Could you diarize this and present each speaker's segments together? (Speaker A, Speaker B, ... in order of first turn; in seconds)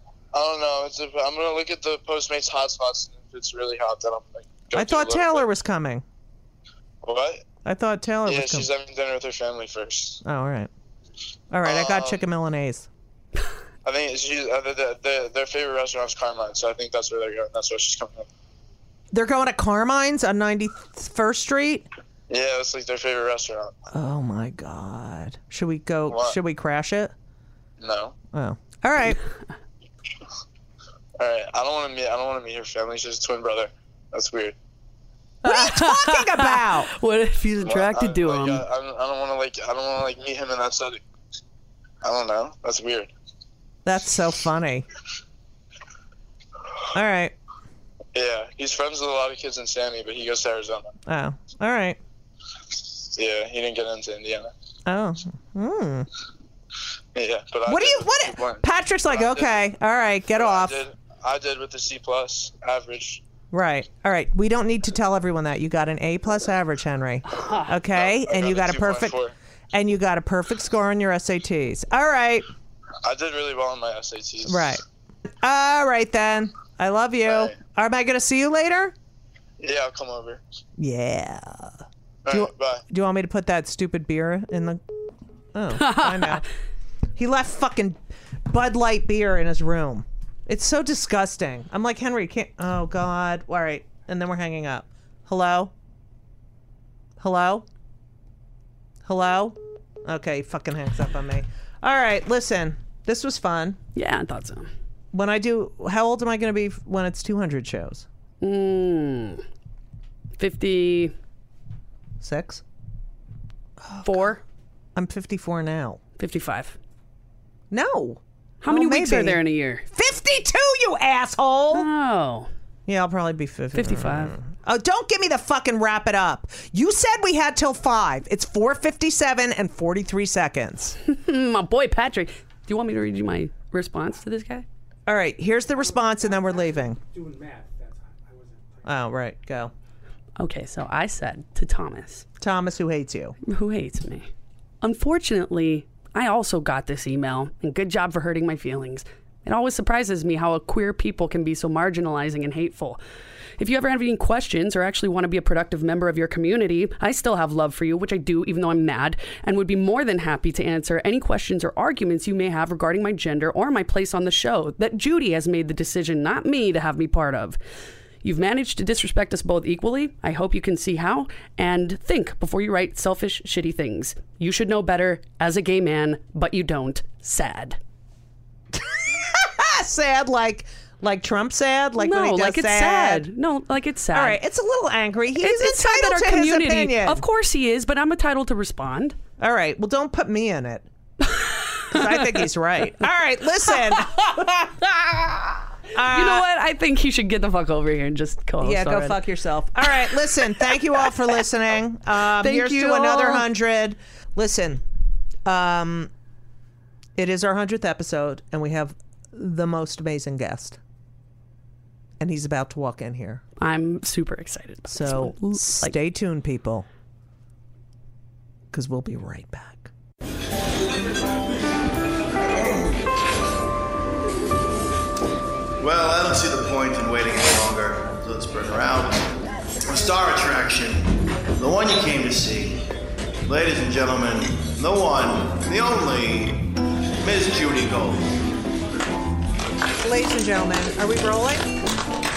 Speaker A: 0.3-5.5, 7.0-7.4, 8.2-10.2, 11.6-12.2, 13.8-18.3, 22.3-23.7, 26.1-26.4, 27.8-28.1, 31.2-34.5, 37.6-41.0, 42.0-43.1, 48.1-50.9, 53.1-54.5, 57.1-59.6, 60.4-63.2, 67.9-69.3, 73.0-74.8, 77.3-77.5, 79.6-80.4, 82.2-82.8
Speaker B: 4.7-6.0, 7.6-8.7, 10.2-10.7, 11.5-12.9, 19.1-21.9, 23.9-27.1, 28.3-29.2, 35.4-36.9, 43.9-44.8, 46.9-47.3, 51.1-52.0, 54.9-56.1, 57.7-60.8, 63.5-69.2, 69.7-72.5, 74.5-74.8, 75.4-78.9, 80.8-81.7, 82.3-84.8, 85.5-86.4, 87.2-95.7, 97.2-97.6, 99.0-103.8, 105.1-108.0, 112.2-112.6, 113.9-114.3, 115.0-116.0, 117.7-119.4, 119.9-121.9, 122.9-131.0, 135.1-137.0, 138.8-139.7, 142.4-143.3, 178.7-183.3, 184.1-187.2, 189.4-190.8, 191.9-194.7, 195.9-196.5, 198.6-204.8, 205.4-206.1, 207.2-210.8, 212.2-213.4, 214.9-216.8, 218.7-219.9, 240.0-241.7
Speaker C: 35.4-38.6, 67.3-67.7, 85.7-86.4, 103.9-104.7, 108.4-109.4, 110.4-111.1, 114.0-114.4, 116.2-116.8, 118.6-119.8, 121.7-122.5, 123.7-124.4, 131.1-134.6, 140.4-142.2, 143.4-144.3, 144.8-153.0, 153.6-167.6, 168.2-177.8, 182.0-184.4, 185.4-189.2, 191.3-192.4, 193.8-199.2, 199.9-201.1, 202.3-203.5, 213.6-215.9
Speaker D: 135.7-138.9
Speaker E: 222.4-223.0, 225.8-232.8, 233.4-236.7, 237.2-238.4